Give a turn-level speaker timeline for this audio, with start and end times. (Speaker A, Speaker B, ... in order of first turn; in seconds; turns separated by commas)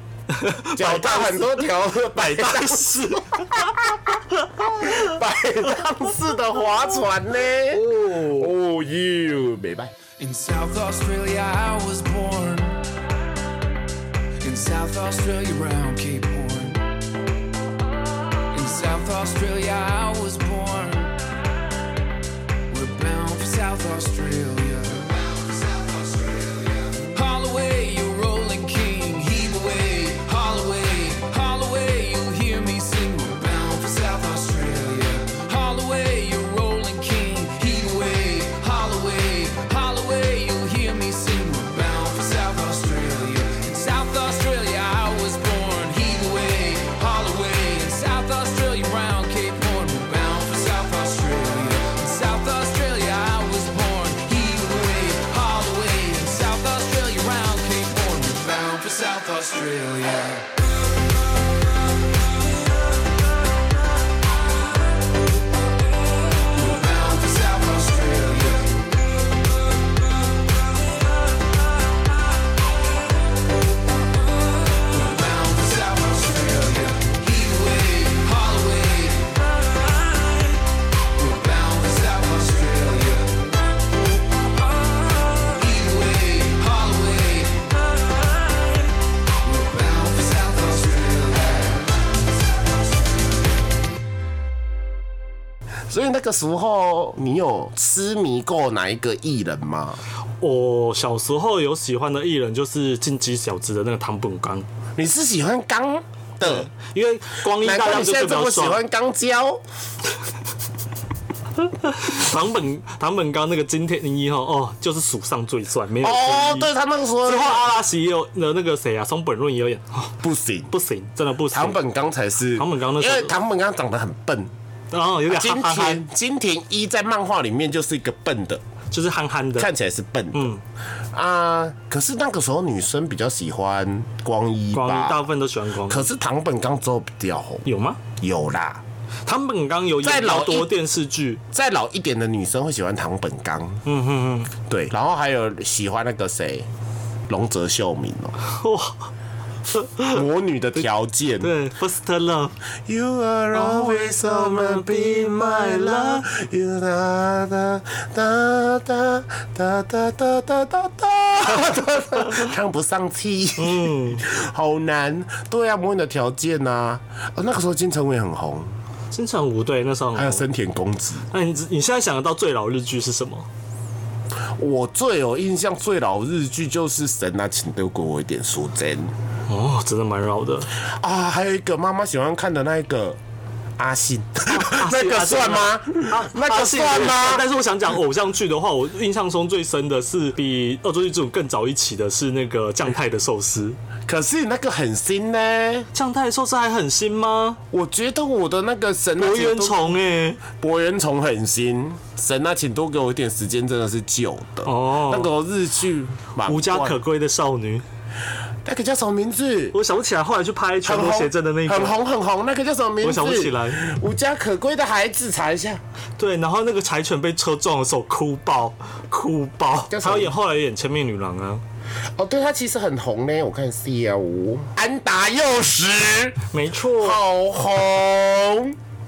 Speaker A: 0.3-1.6, Speaker B: 0.7-9.9, Speaker A: 2.1-3.7, Speaker A: 4.8-5.1, Speaker A: 7.7-8.5, Speaker C: 10.2-12.8, Speaker C: 14.4-16.8, Speaker C: 18.5-21.1, Speaker C: 22.7-60.5, Speaker C: 66.5-68.8, Speaker C: 74.9-79.4, Speaker C: 81.1-83.5, Speaker C: 85.4-87.7, Speaker C: 89.4-91.8, Speaker B: 95.9-100.0, Speaker A: 100.4-104.7, Speaker B: 105.0-106.7, Speaker A: 106.4-108.8, Speaker B: 107.5-109.6, Speaker A: 111.6-120.2, Speaker B: 116.0-117.7, Speaker B: 120.2-120.7, Speaker A: 120.7-121.8, Speaker B: 121.5-124.5, Speaker A: 122.5-123.3, Speaker A: 124.9-126.0, Speaker B: 125.3-128.6, Speaker A: 128.9-129.7, Speaker B: 129.6-130.5, Speaker A: 130.3-130.6, Speaker B: 131.1-135.2, Speaker A: 134.7-136.1, Speaker B: 135.8-137.6, Speaker A: 137.6-138.0, Speaker B: 138.2-138.8, Speaker A: 139.2-141.4, Speaker B: 140.0-140.7, Speaker B: 141.5-143.8, Speaker A: 143.8-144.5, Speaker B: 144.7-146.7, Speaker B: 147.3-148.3, Speaker A: 148.4-149.1, Speaker A: 149.7-150.2, Speaker B: 150.1-151.5, Speaker A: 151.4-152.5, Speaker B: 152.8-168.7, Speaker A: 153.5-156.3, Speaker A: 163.6-164.2, Speaker A: 169.1-170.4, Speaker B: 170.1-171.3, Speaker A: 171.3-173.5, Speaker B: 174.6-179.1, Speaker A: 179.5-180.7, Speaker B: 180.8-183.2, Speaker B: 183.8-187.4, Speaker A: 184.5-193.8, Speaker B: 194.1-195.9, Speaker A: 195.9-197.6, Speaker B: 197.7-199.9, Speaker A: 199.2-200.4, Speaker B: 200.5-207.0, Speaker A: 204.6-205.3, Speaker A: 206.4-207.8, Speaker B: 208.6-209.8, Speaker A: 209.7-211.9, Speaker B: 210.8-215.8, Speaker A: 213.0-213.8, Speaker A: 216.2-221.6, Speaker B: 219.9-220.3, Speaker B: 222.2-226.4, Speaker A: 226.5-227.2, Speaker B: 226.9-228.8